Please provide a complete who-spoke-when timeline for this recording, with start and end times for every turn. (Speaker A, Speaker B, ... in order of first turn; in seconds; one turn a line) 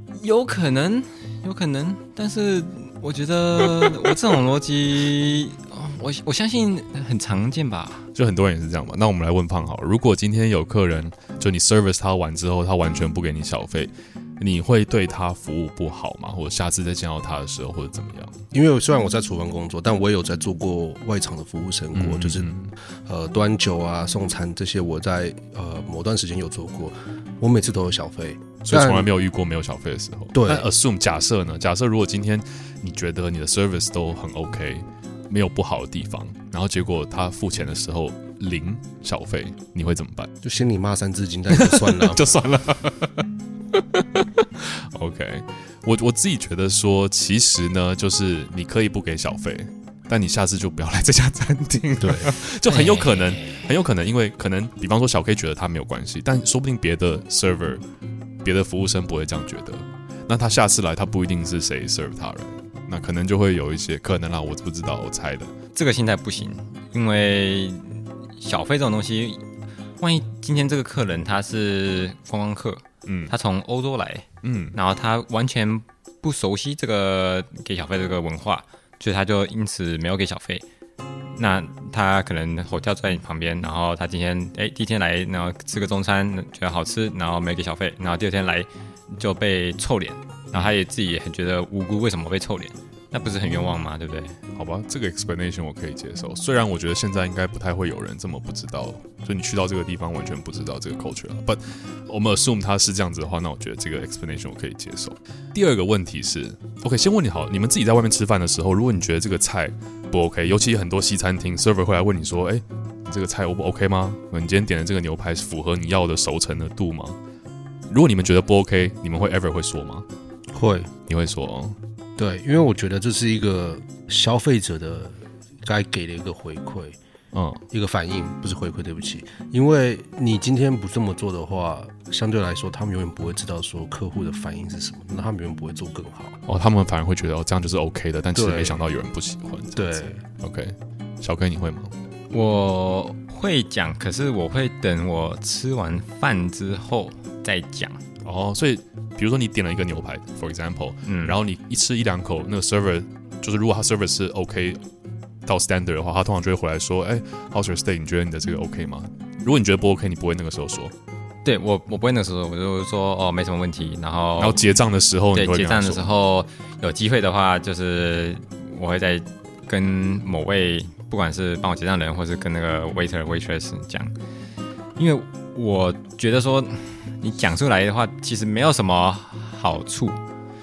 Speaker A: 0.2-8.1
Speaker B: 8.2-18.4
Speaker C: 18.5-22.5
Speaker B: 21.9-22.7
Speaker C: 23.1-29.1
Speaker B: 28.6-40.3
Speaker C: 30.3-30.7
Speaker C: 40.4-42.2
Speaker B: 41.5-57.8
Speaker C: 52.0-52.3
Speaker A: 52.7-53.6
Speaker B: 58.4-65.5
Speaker A: 65.7-69.4
Speaker A: 70.0-80.7
Speaker B: 73.1-73.3
Speaker B: 74.4-74.8
Speaker A: 81.4-94.4
Speaker B: 94.5-117.2
Speaker B: 117.9-120.1
Speaker C: 120.5-120.9
Speaker B: 121.1-121.8
Speaker C: 122.2-127.0
Speaker B: 127.3-127.6
Speaker C: 127.7-136.4
Speaker B: 136.5-141.9
Speaker C: 138.3-138.8
Speaker C: 139.8-140.2
Speaker A: 142.3-148.0
Speaker B: 148.2-154.8
Speaker A: 151.1-151.4
Speaker B: 155.4-160.9
Speaker A: 161.4-164.6
Speaker B: 164.4-166.1
Speaker A: 165.3-174.1
Speaker A: 175.0-180.2